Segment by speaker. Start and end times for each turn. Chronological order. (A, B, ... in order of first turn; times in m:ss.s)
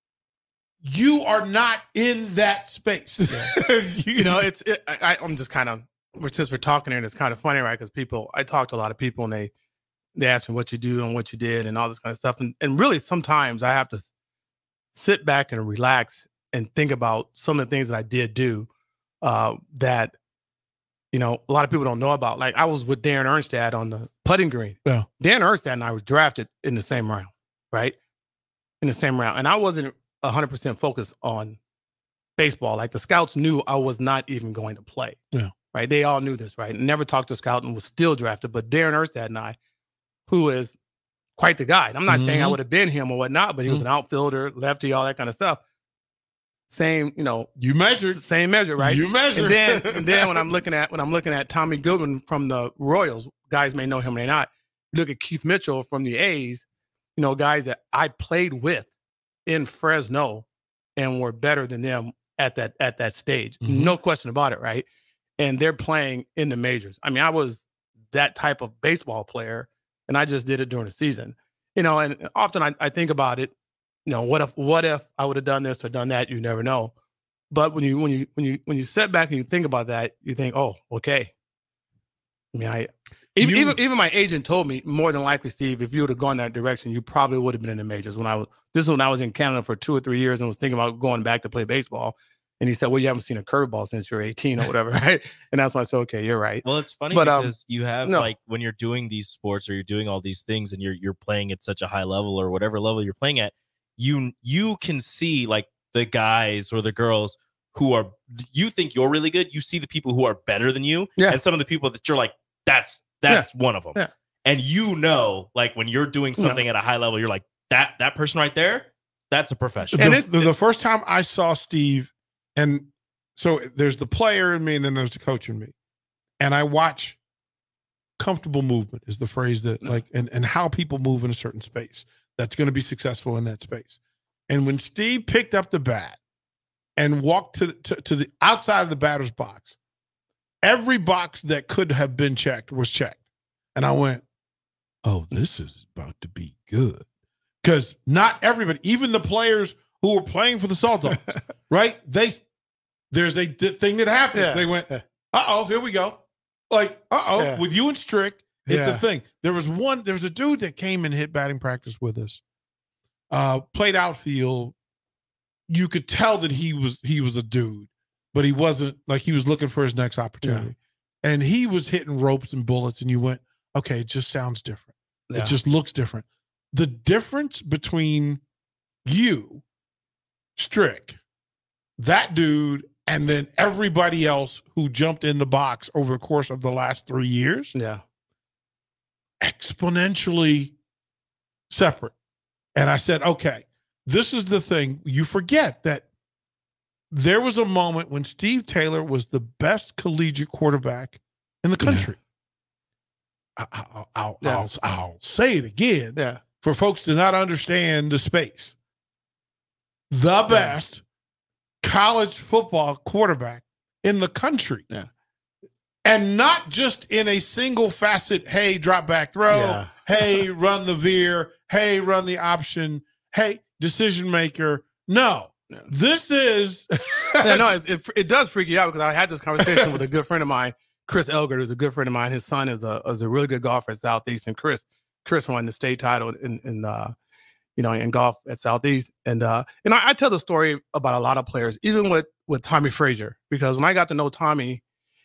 0:00.8-0:04.4 A
0:04.1-0:09.5 B
0:10.2-0:14.1 B
0:14.9-0:18.7 B
0:19.2-0:20.1 B
0:21.1-0:27.9 B
0:28.8-0:31.6 B
0:32.4-0:35.2 B
0:35.7-0:39.6 B
0:40.3-0:40.8 B
0:41.4-0:45.6 B
0:42.1-0:42.6 A
0:46.7-0:47.5 B
0:47.6-0:48.2 A
0:48.1-0:56.6 B
0:48.8-0:50.4 A
0:57.2-0:58.9 B
0:59.4-1:00.4 B
1:01.0-1:04.8 B
1:03.6-1:03.9 A
1:05.4-1:13.5 B
1:14.0-1:16.9 B
1:17.5-1:21.3 B
1:22.5-1:37.5 B
1:23.4-1:23.8 A
1:36.6-2:00.2 C
1:53.3-1:54.1 B
1:59.9-2:05.7 A
2:00.0-2:00.4 B
2:06.4-2:07.2 A
2:08.2-2:16.2 A
2:17.0-2:19.8 A
2:20.6-2:23.2 A
2:23.7-2:24.2 A
2:25.0-2:27.0 A
2:27.6-2:32.4 A
2:31.1-2:31.4 B
2:33.1-2:42.4 A
2:34.3-2:35.0 B
2:37.4-2:37.6 B
2:38.7-2:39.0 B
2:43.3-2:44.7 A
2:45.7-2:58.4 A
2:55.3-2:55.6 B
2:59.0-2:59.6 A
3:00.6-3:01.2 A
3:02.0-3:07.7 A
3:07.7-3:08.0 B
3:09.4-3:10.7 A
3:11.7-3:12.1 A
3:12.7-3:16.0 A
3:17.1-3:22.2 A
3:21.8-3:22.1 B
3:23.6-3:28.8 A
3:26.2-3:26.4 B
3:30.1-3:31.0 A
3:31.8-3:34.8 A
3:36.0-3:47.6 A
3:39.5-3:39.9 B
3:47.4-3:57.1 B
3:49.6-3:49.9 A
3:57.8-4:04.8 B